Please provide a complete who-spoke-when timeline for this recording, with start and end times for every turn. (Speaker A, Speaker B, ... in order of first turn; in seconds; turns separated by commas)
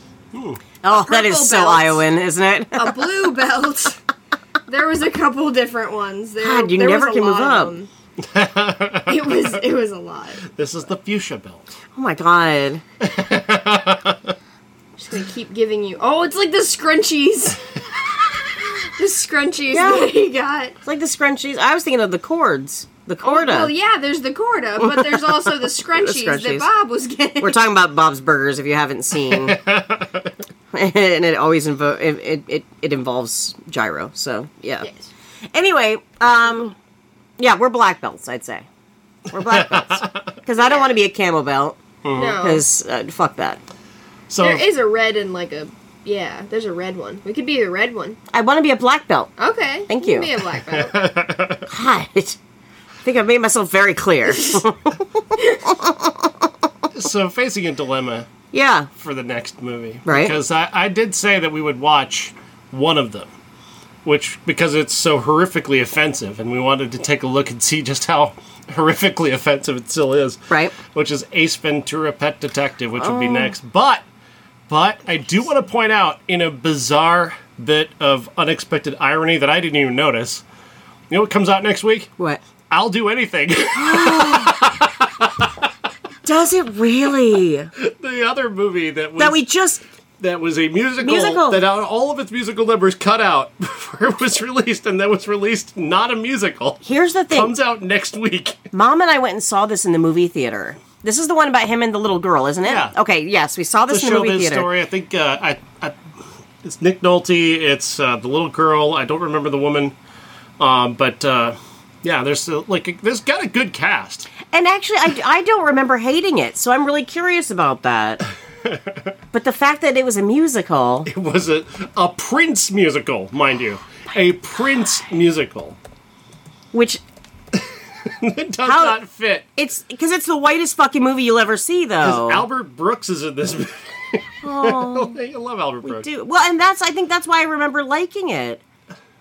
Speaker A: 0.3-0.6, Speaker B: 0.8-3.0, Speaker C: 0.9-2.0, Speaker C: 2.8-4.0, Speaker C: 4.7-7.9, Speaker B: 6.4-7.7, Speaker A: 8.2-9.6, Speaker C: 9.1-10.5, Speaker A: 10.5-11.7, Speaker B: 11.9-12.8, Speaker A: 13.0-14.4, Speaker C: 15.0-20.8, Speaker B: 19.7-20.1, Speaker B: 20.8-23.7, Speaker C: 23.2-27.6, Speaker B: 24.8-26.7, Speaker B: 27.4-29.6, Speaker A: 29.3-30.3, Speaker B: 30.7-34.9, Speaker C: 34.8-35.1, Speaker B: 35.5-36.8, Speaker B: 37.4-38.7, Speaker B: 39.3-43.6, Speaker A: 39.4-40.2, Speaker C: 40.6-41.0, Speaker A: 42.0-42.4, Speaker C: 42.1-42.6, Speaker A: 44.3-44.7, Speaker C: 44.4-48.2, Speaker B: 48.3-49.3, Speaker C: 49.4-51.0, Speaker B: 49.9-50.3, Speaker A: 50.7-51.7, Speaker B: 51.7-52.4, Speaker B: 53.0-56.3, Speaker A: 56.9-58.3, Speaker B: 58.5-58.9, Speaker A: 59.0-63.3, Speaker B: 60.0-60.4, Speaker A: 64.0-74.0, Speaker B: 73.0-73.5, Speaker A: 74.7-80.4, Speaker A: 81.1-82.1, Speaker A: 82.7-85.7, Speaker B: 83.8-84.8, Speaker B: 86.2-87.7, Speaker A: 87.8-89.5, Speaker B: 89.2-89.8, Speaker A: 90.2-98.6, Speaker B: 91.0-91.6, Speaker B: 96.8-97.5, Speaker B: 98.7-104.7, Speaker A: 102.6-103.0, Speaker A: 103.9-106.0, Speaker A: 106.6-110.0, Speaker A: 110.6-114.3, Speaker B: 114.5-118.2, Speaker A: 118.6-119.1, Speaker B: 119.3-121.1, Speaker A: 121.1-125.8, Speaker B: 126.7-127.0, Speaker A: 127.5-129.5, Speaker B: 128.6-129.0, Speaker B: 129.6-132.5, Speaker A: 132.0-136.1, Speaker B: 134.4-135.2, Speaker B: 135.8-138.6